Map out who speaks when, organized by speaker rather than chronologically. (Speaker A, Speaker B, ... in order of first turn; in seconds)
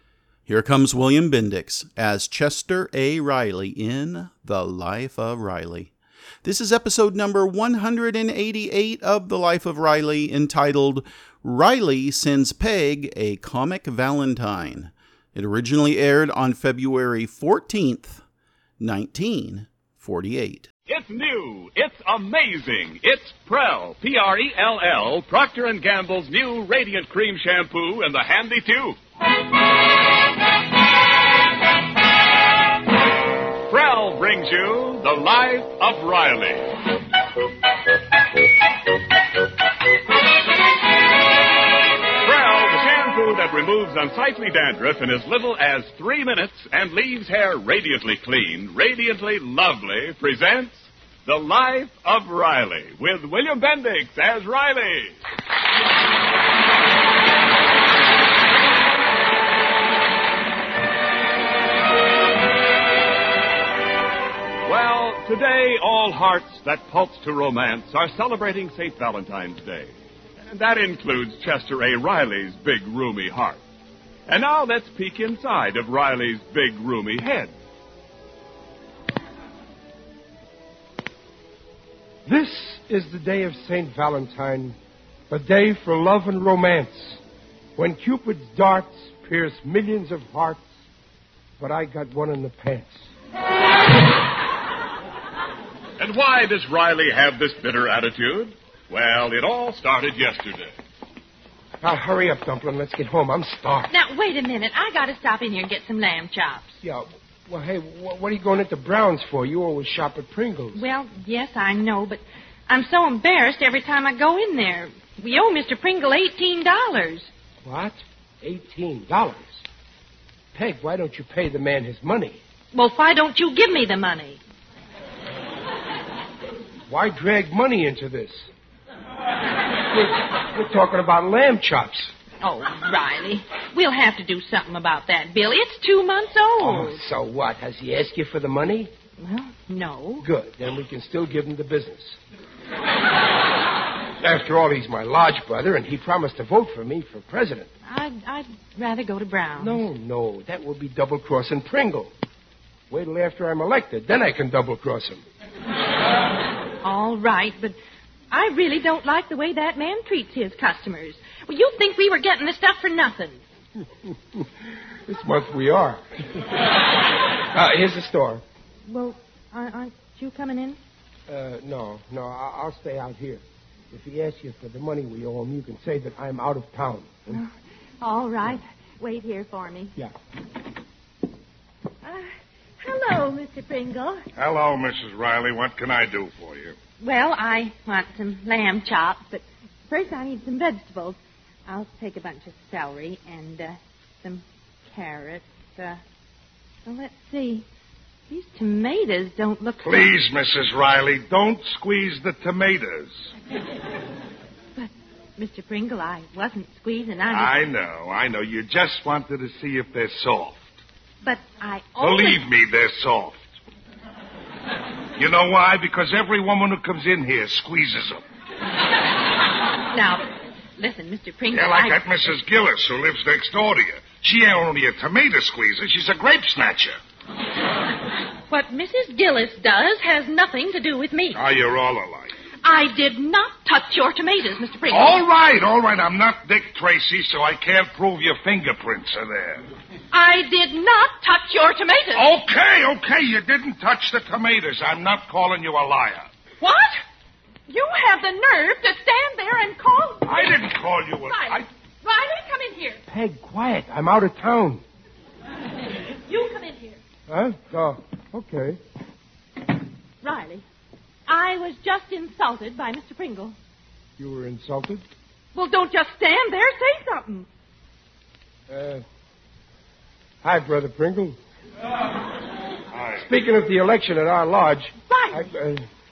Speaker A: 0.5-5.9, 6.4-18.2, 18.8-20.7
Speaker B: 20.9-29.0, 33.7-36.7, 42.2-55.1, 64.7-69.9, 70.5-73.6, 74.3-77.5, 96.0-100.7
Speaker C: 82.3-84.8, 85.3-87.2, 87.8-90.7, 91.6-93.0, 101.8-103.9, 106.8-110.8, 117.7-119.6, 120.5-122.4, 126.9-128.5, 129.9-132.1, 136.6-138.9, 140.2-142.2, 144.2-147.7, 149.6-152.1, 152.9-155.2, 165.1-166.4, 167.5-168.4, 171.3-177.4, 253.1-254.8, 257.3-258.8, 264.2-265.0, 268.7-269.0, 270.4-271.4, 273.1-275.9
Speaker D: 103.9-106.7, 110.8-117.3, 122.7-124.4, 132.4-137.0, 139.2-140.3, 147.9-149.9, 156.8-157.8, 158.3-163.4, 168.9-170.8, 178.0-179.9, 182.0-182.3, 182.8-184.2, 187.0-196.0, 196.9-197.7, 198.3-200.2, 204.8-207.6, 211.2-212.4, 219.9-220.2, 220.8-222.0, 228.5-231.4, 232.6-235.2, 240.1-242.3, 246.6-247.0, 247.7-250.7, 251.2-253.0, 256.3-257.0, 260.2-260.6, 261.3-263.6, 265.6-267.5, 275.1-275.4
Speaker E: 184.4-186.8, 199.8-203.2, 207.3-210.7, 212.0-213.5, 215.2-218.2, 221.5-227.0, 231.3-232.3, 234.9-239.6, 242.1-246.3, 250.2-251.7, 272.9-273.2